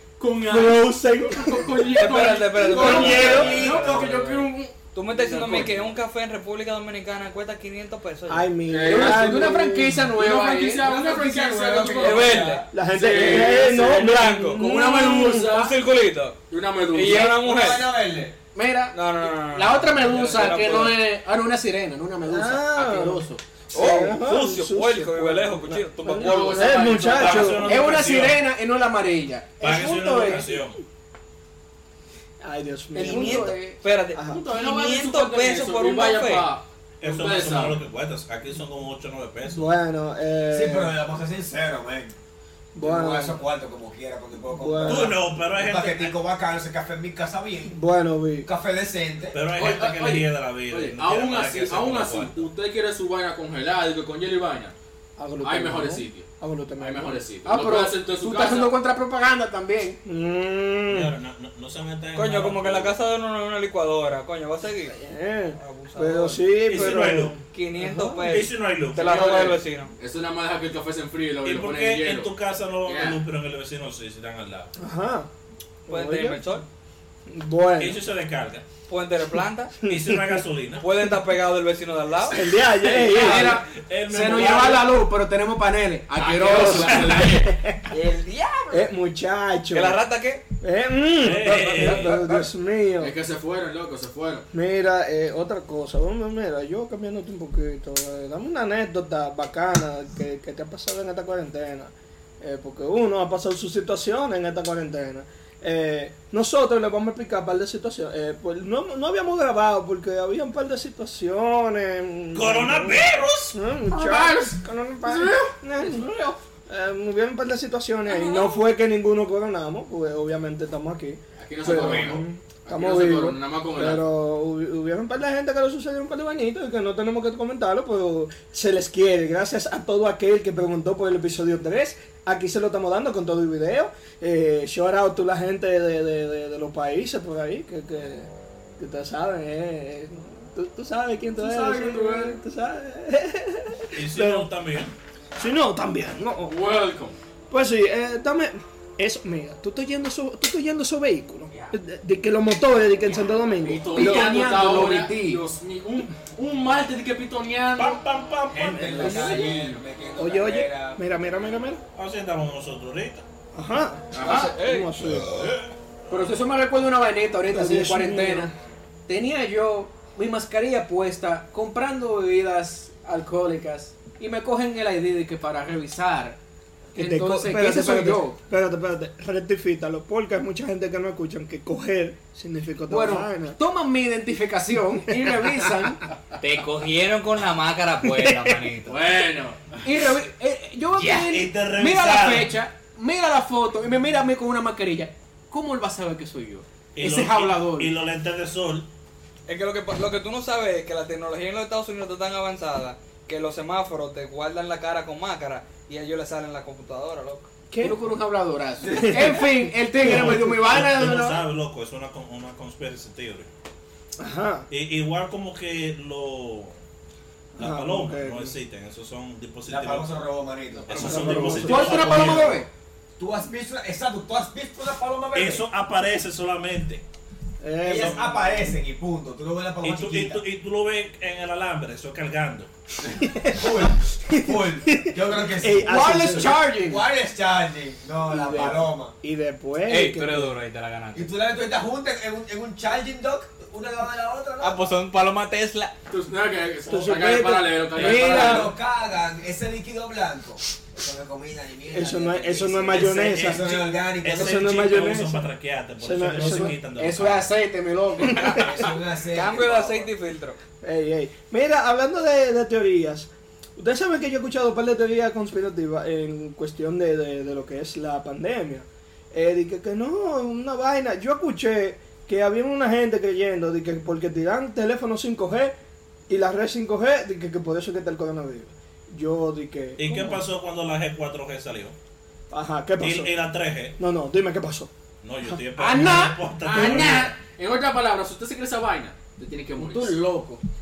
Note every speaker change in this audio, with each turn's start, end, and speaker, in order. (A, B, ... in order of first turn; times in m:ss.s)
0:00.2-0:05.9 A
0:00.4-0:03.6 B
0:02.0-0:08.5 C
0:02.7-0:04.1 D
0:08.3-0:10.0 B
0:08.7-0:14.0 A
0:08.8-0:10.9 E
0:10.8-0:12.7 D
0:12.0-0:16.4 C
0:12.7-0:15.6 B
0:14.6-0:15.8 A
0:16.5-0:17.4 A
0:16.9-0:17.9 C
0:17.4-0:18.4 D
0:18.5-0:23.4 E
0:18.9-0:21.0 C
0:22.3-0:27.7 B
0:23.7-0:27.1 C
0:26.1-0:27.7 A
0:27.1-0:28.4 F
0:27.6-0:29.5 E
0:29.6-0:30.8 F
0:29.6-0:30.7 B
0:32.4-0:33.6 B
0:32.9-0:33.8 E
0:33.0-0:36.5 C
0:34.1-0:34.4 B
0:34.2-0:37.8 A
0:37.0-0:39.7 F
0:39.5-0:41.0 B
0:40.5-0:42.2 D
0:42.8-0:43.4 B
0:42.8-0:47.8 D
0:44.5-0:45.2 B
0:44.8-0:46.2 F
0:47.7-0:48.5 B
0:48.4-0:49.4 D
0:49.3-0:52.5 F
0:49.6-0:54.7 A
0:55.2-0:57.2 B
0:55.4-0:56.3 A
0:56.8-0:58.8 A
0:57.4-1:00.0 E
1:00.0-1:01.1 B
1:00.9-1:03.0 F
1:02.1-1:05.0 C
1:04.9-1:08.2 B
1:05.5-1:07.0 C
1:06.6-1:07.4 F
1:07.5-1:09.9 C
1:08.2-1:09.5 F
1:09.0-1:12.3 A
1:11.4-1:14.7 F
1:12.8-1:13.2 A
1:14.8-1:15.3 B
1:15.9-1:16.4 B
1:15.9-1:16.7 C
1:17.3-1:18.0 B
1:17.8-1:18.7 F
1:18.9-1:19.9 C
1:19.8-1:20.8 F
1:19.9-1:20.4 B
1:20.8-1:22.4 C
1:22.3-1:23.6 B
1:23.1-1:27.3 E
1:23.1-1:24.9 F
1:26.2-1:27.5 A
1:26.5-1:27.9 B
1:27.9-1:28.8 C
1:28.7-1:30.0 B
1:29.7-1:30.4 C
1:30.6-1:33.2 B
1:31.2-1:32.5 F
1:31.4-1:32.1 C
1:33.0-1:34.5 A
1:34.5-2:24.5 B
1:52.3-1:53.6 F
1:53.9-1:55.5 A
2:01.4-2:04.0 A
2:01.7-2:02.1 D
2:21.4-2:22.4 A
2:24.0-2:25.0 F
2:25.4-2:26.6 B
2:26.5-2:27.2 A
2:27.5-2:34.3 B
2:33.6-2:38.0 A
2:33.9-2:35.4 E
2:37.8-2:39.3 F
2:38.5-2:41.0 D
2:39.0-2:39.5 B
2:39.0-2:39.8 A
2:40.2-2:41.8 B
2:42.0-2:43.2 F
2:43.5-2:45.3 B
2:44.1-2:44.6 A
2:44.2-2:44.9 C
2:45.3-2:45.6 F
2:46.1-2:48.5 E
2:47.5-2:48.5 B
2:49.1-2:56.4 E
2:57.0-3:03.6 B
2:57.0-2:58.4 E
3:02.9-3:06.0 E
3:05.1-3:05.7 B
3:06.4-3:09.0 C
3:08.0-3:08.6 B
3:08.9-3:09.8 A
3:09.8-3:17.9 E
3:11.0-3:12.6 F
3:17.0-3:18.9 F
3:19.5-3:27.5 C
3:27.7-3:28.0 B
3:27.8-3:31.4 E
3:28.8-3:29.4 D
3:28.9-3:30.7 B
3:30.0-3:33.5 F
3:34.2-3:34.7 B
3:34.7-3:36.8 F
3:37.6-3:40.2 F
3:37.6-3:38.6 B
3:39.7-3:42.3 D
3:40.8-3:42.6 F
3:40.9-3:42.5 B
3:41.6-3:42.7 E
3:43.2-3:45.7 D
3:45.3-3:47.0 F
3:47.6-3:48.8 B
3:47.8-3:50.4 D
3:47.9-3:48.2 F
3:49.8-3:52.7 F
3:53.0-3:59.1 D
3:53.1-3:56.6 B
3:55.8-3:57.1 E
3:58.3-4:00.6 B
3:59.9-4:01.3 C
4:01.1-4:04.8 D
4:04.6-4:05.9 C
4:06.1-4:08.7 A
4:06.9-4:08.7 B
4:08.0-4:14.8 D
4:11.9-4:13.7 B
4:12.9-4:17.5 F
4:14.3-4:15.5 B
4:16.0-4:16.8 B
4:16.4-4:18.8 E
4:18.2-4:18.7 B
4:18.5-4:20.1 D
4:19.3-4:20.6 C
4:20.8-4:35.8 B
4:36.3-4:40.4 B
4:40.0-4:42.0 F
4:42.5-4:43.3 B
4:43.0-4:44.0 F
4:44.0-4:44.9 B
4:45.2-4:47.4 F
4:45.7-4:47.4 E
4:46.7-4:50.2 A
4:49.8-4:50.6 E